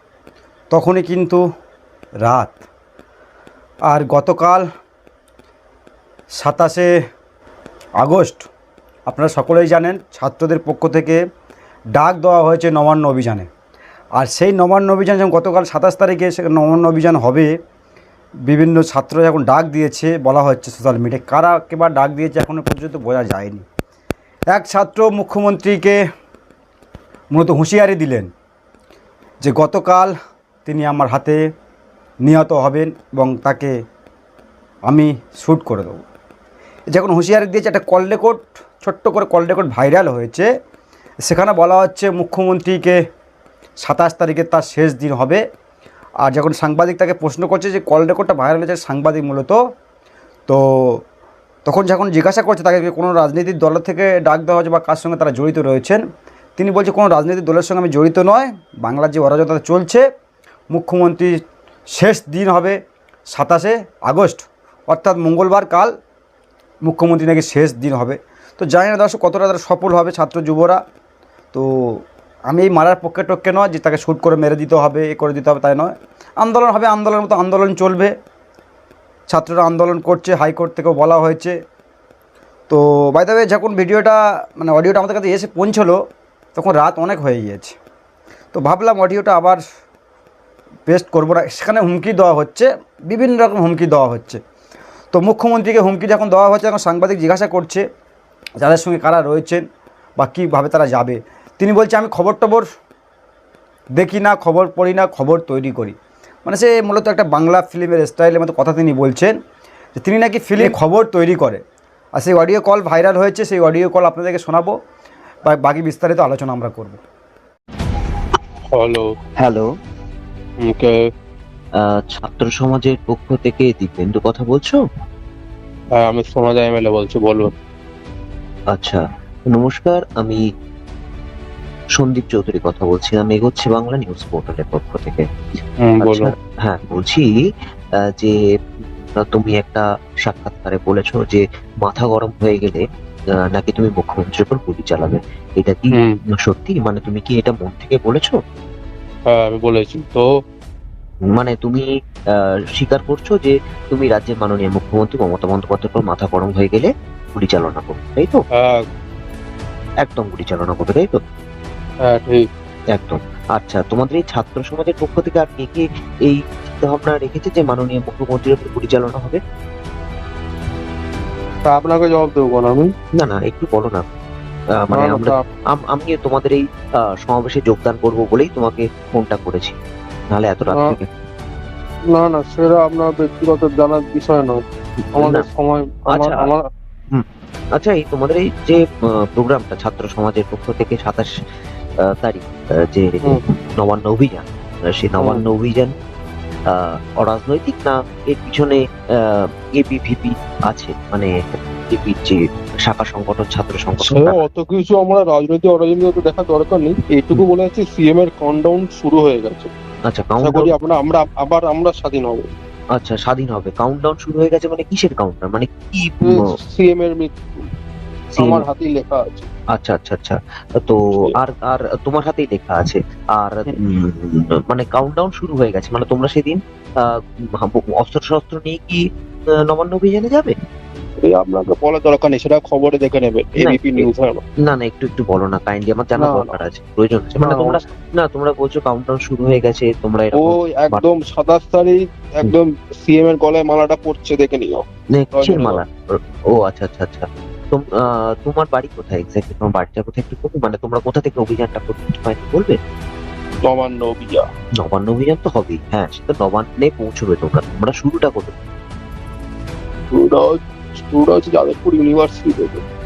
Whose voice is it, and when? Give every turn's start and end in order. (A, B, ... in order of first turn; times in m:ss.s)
0:00.7-0:01.4 A
0:02.2-0:02.6 A
0:03.9-0:04.6 A
0:06.4-0:06.9 A
0:08.0-0:08.5 A
0:09.1-0:11.2 A
0:12.0-0:13.5 A
0:14.2-0:17.5 A
0:18.5-0:23.6 A
0:24.5-0:26.0 A
0:27.3-0:28.3 A
0:29.4-0:30.1 A
0:30.6-0:31.4 A
0:32.2-0:33.7 A
0:34.9-0:36.0 A
0:36.9-0:40.5 A
0:41.3-0:43.0 A
0:43.8-0:45.4 A
0:46.2-0:49.6 A
0:51.6-0:56.0 A
0:56.6-1:00.0 A
1:00.7-1:01.3 A
1:01.9-1:02.8 A
1:03.3-1:05.9 A
1:06.8-1:10.8 A
1:11.5-1:18.1 A
1:19.3-1:21.6 A
1:22.7-1:26.0 A
1:26.5-1:27.7 A
1:28.5-1:29.6 A
1:30.9-1:34.4 A
1:35.1-1:37.8 A
1:38.6-1:39.6 A
1:40.2-1:42.6 A
1:44.0-1:49.3 A
1:50.0-1:51.6 A
1:52.2-1:54.7 A
1:55.4-1:57.0 A
1:58.7-1:59.1 B
1:59.4-1:59.7 C
2:00.6-2:01.0 B
2:01.8-2:04.8 C
2:06.0-2:07.5 B
2:08.7-2:10.4 C
2:12.0-2:15.3 C
2:15.8-2:16.3 B
2:16.0-2:17.3 C
2:18.0-2:18.4 C
2:19.2-2:22.8 C
2:23.5-2:28.4 C
2:25.9-2:26.2 B
2:29.3-2:30.3 B
2:31.3-2:38.4 C
2:38.6-2:38.8 B
2:40.0-2:41.2 C
2:42.1-2:42.5 B
2:42.9-2:49.4 C
2:51.7-2:52.9 B
2:53.2-2:54.0 C
2:54.8-2:59.8 C
2:54.9-2:55.4 B
3:00.3-3:01.1 C
3:02.1-3:04.6 B
3:05.0-3:05.4 C
3:05.2-3:06.6 B
3:06.1-3:06.4 C
3:07.8-3:11.3 C
3:12.0-3:15.9 C
3:16.7-3:24.4 C
3:24.0-3:29.7 B
3:30.1-3:30.7 C
3:30.4-3:32.5 B
3:33.0-3:36.4 C
3:36.2-3:37.4 B
3:38.3-3:38.6 C
3:38.4-3:39.5 B
3:39.7-3:49.0 C
3:49.6-3:50.5 C
3:51.2-3:54.4 B
3:53.6-3:54.1 C
3:54.6-4:01.0 C
3:56.2-3:56.5 B
3:57.4-3:57.8 B
4:00.4-4:04.8 B
4:05.1-4:05.9 C
4:05.3-4:05.8 B
4:06.5-4:12.8 C
4:13.6-4:14.4 B
4:14.8-4:18.6 C
4:20.1-4:22.8 B